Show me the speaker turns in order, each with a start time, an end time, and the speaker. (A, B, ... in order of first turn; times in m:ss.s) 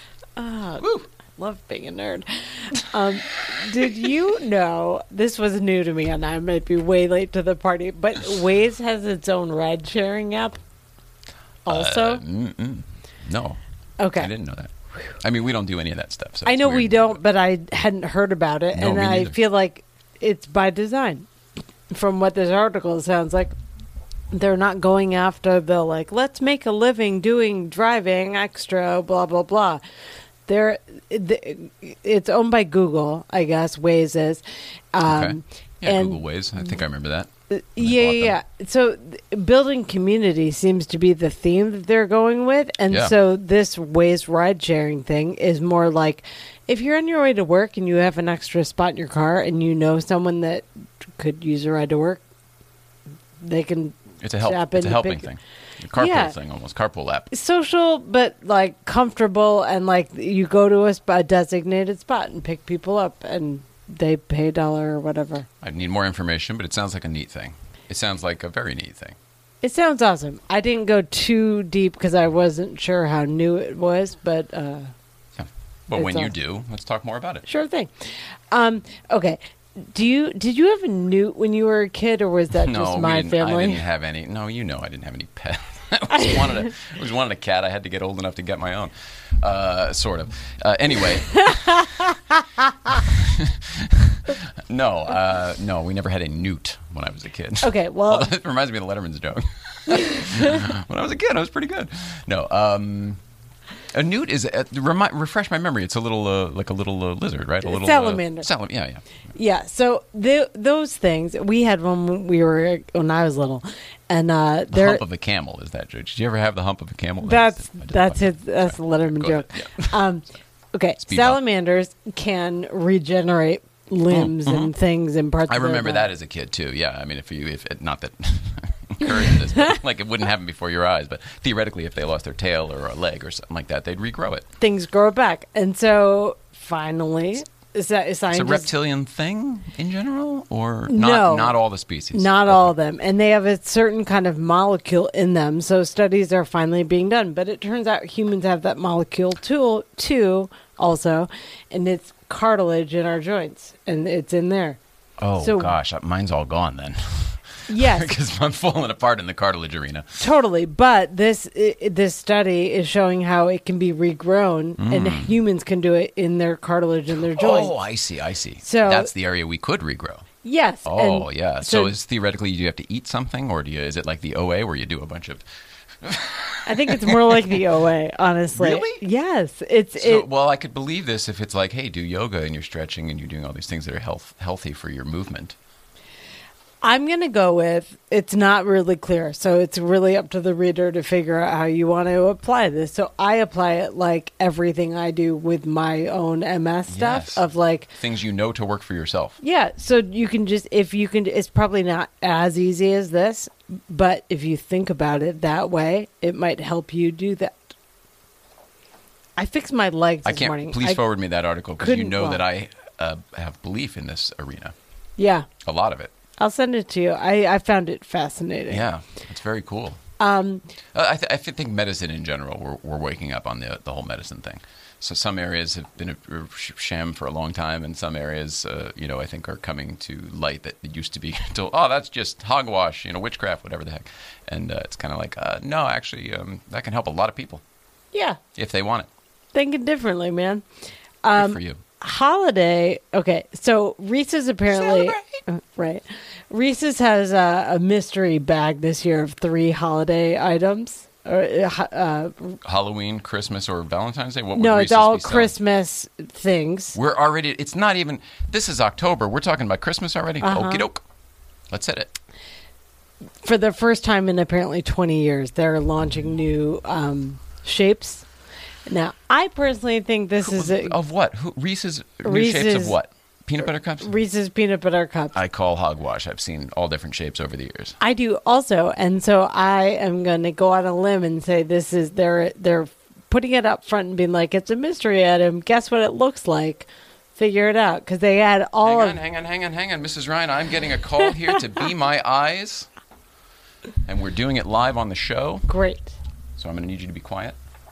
0:00.4-0:10.6 A
0:00.8-0:01.1 B
0:11.6-0:12.2 A
0:11.7-0:13.6 B
0:14.0-0:14.3 A
0:14.1-0:17.2 B
0:16.4-0:21.3 A
0:18.7-0:19.4 B
0:21.9-0:23.5 A
0:24.3-0:29.8 A
0:30.4-0:34.4 A
0:34.9-0:36.2 A
0:35.0-0:38.4 B
0:37.5-0:52.2 A
0:42.9-0:43.1 B
0:53.4-0:55.3 A
0:54.2-0:57.3 B
0:56.0-0:56.3 A
0:57.3-1:05.5 A
1:05.6-1:09.2 B
1:09.6-1:14.9 A
1:15.4-1:17.5 B
1:15.9-1:16.3 A
1:17.4-1:23.8 A
1:22.6-1:32.0 B
1:32.8-1:43.2 B
1:37.6-1:38.3 A
1:39.9-1:40.4 A
1:43.9-1:49.3 B
1:47.6-1:48.5 A
1:49.3-1:55.0 A
1:54.7-2:00.0 B
1:57.2-2:06.1 A
2:01.0-2:01.4 B
2:04.1-2:04.7 B
2:05.5-2:14.4 B
2:14.6-2:18.7 A
2:18.3-2:22.7 B
2:20.9-2:21.6 A
2:22.1-2:34.8 A
2:35.2-2:40.2 B
2:35.4-2:35.7 A
2:37.7-2:38.2 A
2:40.2-2:47.7 A
2:44.8-2:45.4 B
2:47.3-2:50.3 B
2:48.6-2:49.1 A
2:50.4-2:51.9 A
2:50.8-2:55.4 B
2:56.0-2:57.6 B
2:56.6-3:00.2 A
2:58.5-2:59.0 B
3:00.0-3:05.5 B
3:06.8-3:17.9 A
3:16.9-3:19.4 B
3:19.4-3:27.6 A
3:29.4-3:31.0 A
3:30.2-3:34.7 B
3:31.8-3:32.4 A
3:35.2-3:35.5 A
3:35.6-3:36.1 B
3:36.4-3:38.8 A
3:38.7-3:40.0 B
3:40.2-3:40.6 A
3:40.9-3:57.6 B
3:58.1-3:58.4 A
3:58.5-3:59.1 B
3:59.5-4:00.6 A
4:01.2-4:12.6 A
4:01.3-4:01.8 B
4:04.7-4:05.4 B
4:12.6-4:15.5 B
4:14.5-4:17.0 A
4:16.9-4:21.0 B
4:20.4-4:20.8 A
4:21.7-4:22.1 B
4:23.4-4:28.3 A
4:28.9-4:31.0 A
4:30.4-4:34.1 B
4:32.2-4:33.0 A
4:34.0-4:35.3 A
4:35.3-4:38.0 B
4:38.0-4:49.2 A
4:48.8-4:52.9 B
4:54.0-4:55.7 B
4:55.7-4:56.1 A
4:56.6-4:57.6 B